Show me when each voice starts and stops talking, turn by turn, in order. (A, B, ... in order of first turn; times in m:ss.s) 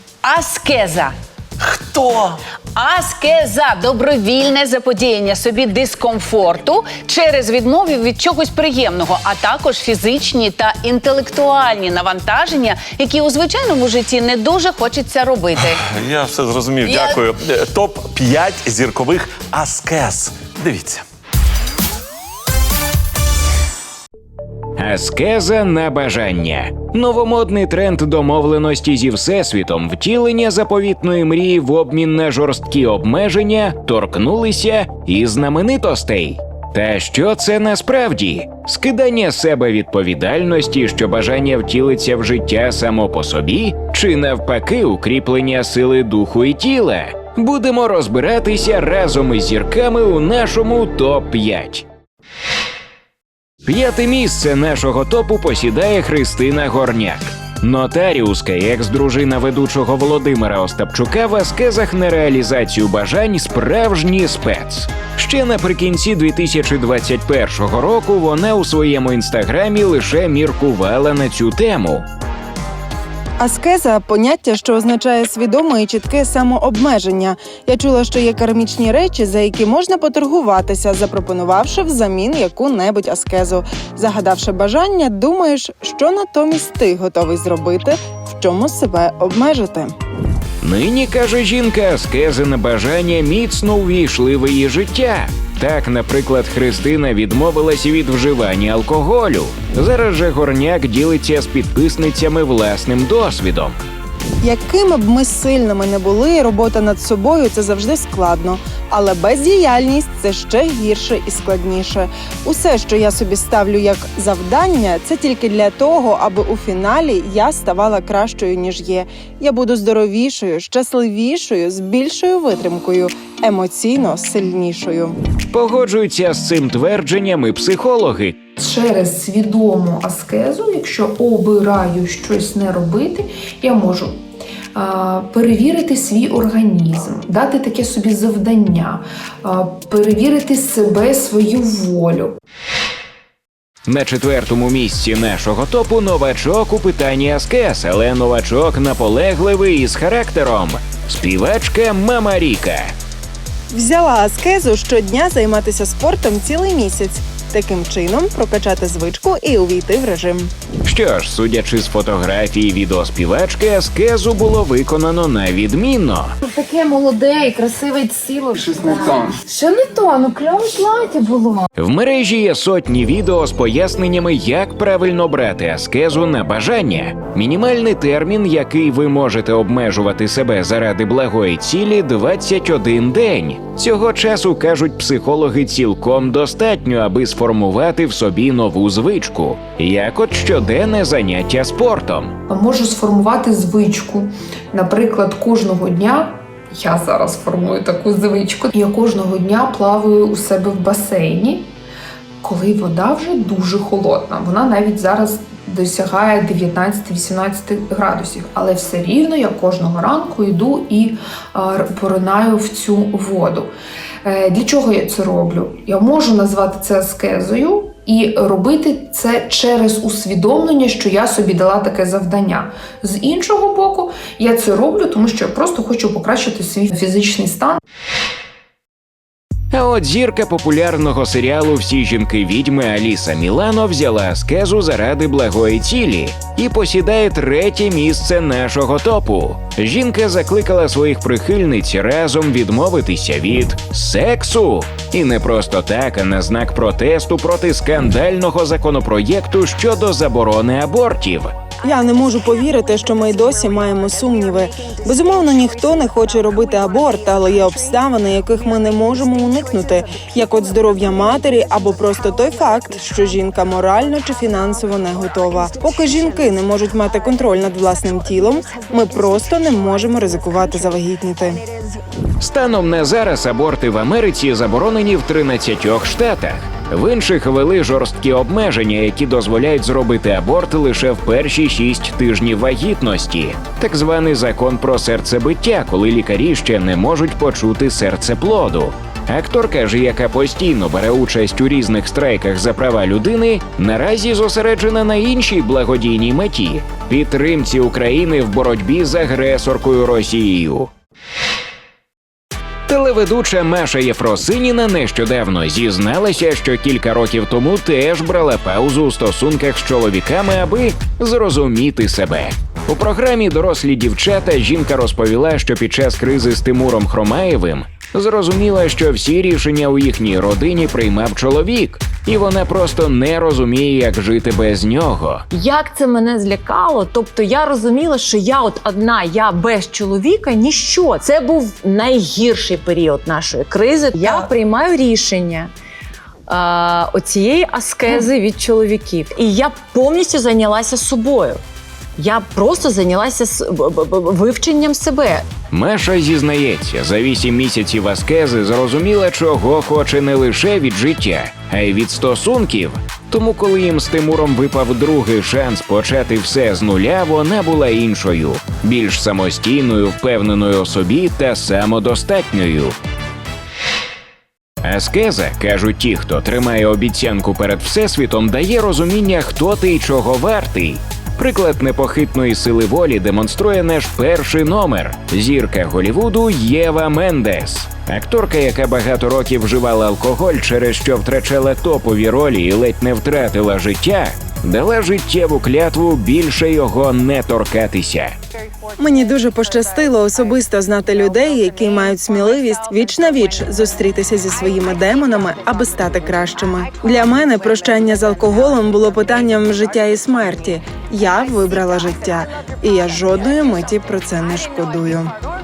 0:00.2-0:01.1 A
0:01.6-0:02.4 B
0:02.8-0:15.8 A
0:15.6-0:21.0 B
0:16.8-0:17.2 A
0:24.8-0:51.9 C
0:53.6-1:12.0 C
1:13.4-1:29.9 D
1:30.6-1:43.8 C
1:44.4-2:05.2 D
2:05.5-2:08.4 C
2:08.6-2:14.2 E
2:14.8-2:22.3 E
2:23.9-2:32.9 C
2:33.7-2:40.5 D
2:40.8-2:46.3 C
2:46.4-2:51.7 F
2:48.7-2:49.4 D
2:51.8-3:12.3 C
3:12.5-3:21.7 E
3:22.4-3:33.7 E
3:34.2-3:47.8 E
3:49.7-4:11.5 C
4:11.8-4:31.6 D
4:32.4-5:00.9 C
5:02.9-5:25.4 C
5:25.5-5:35.7 G
5:36.5-5:41.6 G
5:42.2-5:45.5 G
5:45.7-6:03.0 C
6:04.8-6:28.4 C
6:29.0-6:45.3 D